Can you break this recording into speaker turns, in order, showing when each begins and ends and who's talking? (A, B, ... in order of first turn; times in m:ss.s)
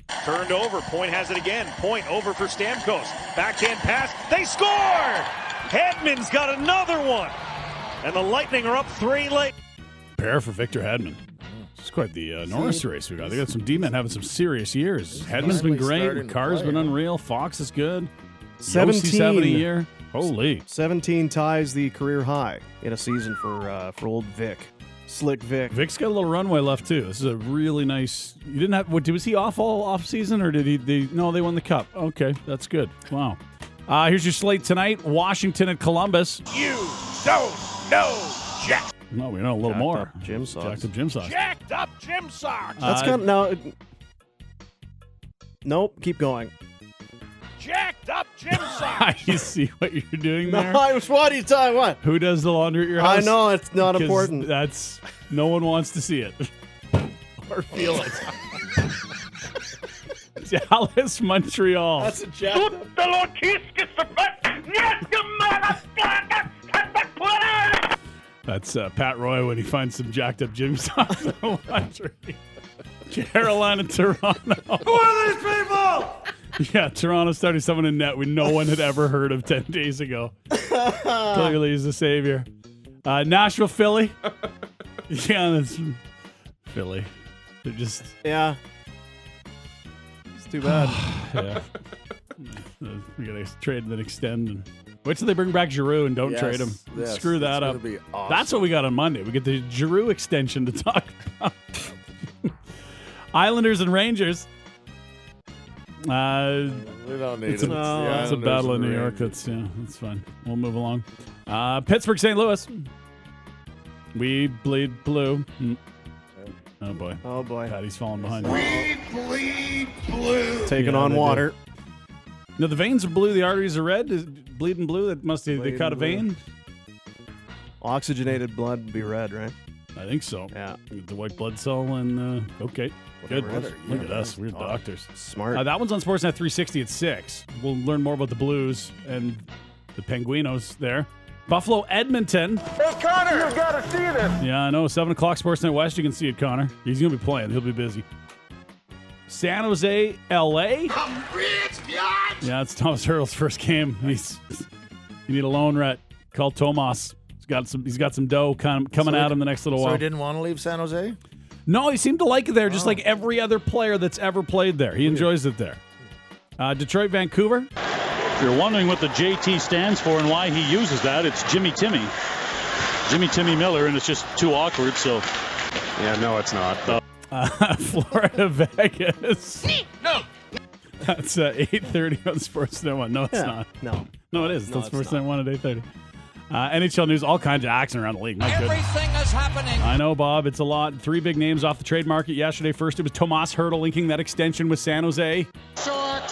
0:00.2-0:07.4 A
0:08.0-0:09.5 A
0:10.2-0:11.2 B
0:11.4-0:11.7 C
0:11.8-0:18.1 B
0:12.5-0:13.9 C
0:15.1-0:17.0 C
0:18.6-0:19.7 D
0:18.7-0:20.6 B
0:20.7-0:25.8 D
0:25.7-0:36.4 B
0:36.5-0:38.9 A
0:39.1-0:41.4 B
0:39.7-0:40.9 D
0:41.2-0:42.9 A
0:42.8-0:43.3 B
0:42.8-0:43.7 D
0:45.6-0:46.5 D
0:47.6-0:49.2 A
0:48.5-0:50.8 B
0:50.4-0:52.0 D
0:52.0-0:56.5 B
0:53.0-0:54.5 D
0:57.4-0:58.6 B
1:00.4-1:02.2 B
1:02.0-1:02.8 D
1:08.5-1:12.4 B
1:13.1-1:15.1 B
1:16.6-1:20.4 B
1:20.5-1:21.6 D
1:21.0-1:22.5 B
1:23.0-1:24.2 B
1:25.1-1:26.0 B
1:26.7-1:27.1 B
1:27.6-1:28.2 B
1:28.2-1:28.6 D
1:30.4-1:31.1 D
1:30.6-1:31.7 B
1:32.4-1:41.8 B
1:36.2-1:38.7 C
1:43.3-1:44.5 B
1:46.0-1:46.9 B
1:46.8-1:49.4 C
1:47.5-1:52.9 B
1:47.6-1:48.4 D
1:54.1-1:55.8 B
1:56.8-1:58.8 B
1:57.2-1:57.8 D
1:58.4-1:58.9 C
2:00.6-2:01.6 D
2:00.7-2:01.5 B
2:02.6-2:06.4 B
2:05.5-2:06.2 D
2:07.8-2:09.6 D
2:10.0-2:22.6 B
2:10.5-2:10.8 D
2:13.2-2:14.8 C
2:13.2-2:14.1 D
2:15.1-2:15.6 D
2:22.8-2:24.3 E
2:24.4-2:28.0 B
2:29.3-2:31.0 B
2:31.1-2:32.2 E
2:32.4-2:34.7 B
2:35.3-2:40.0 B
2:39.0-2:41.2 C
2:41.7-2:45.8 B
2:42.7-2:43.0 C
2:46.6-2:47.7 B
2:48.4-2:52.1 F
2:53.1-2:55.3 F
2:56.0-2:57.0 F
2:57.3-2:59.8 B
3:01.0-3:05.9 B
3:03.3-3:05.2 D
3:06.5-3:08.8 B
3:08.4-3:09.8 F
3:09.8-3:15.5 B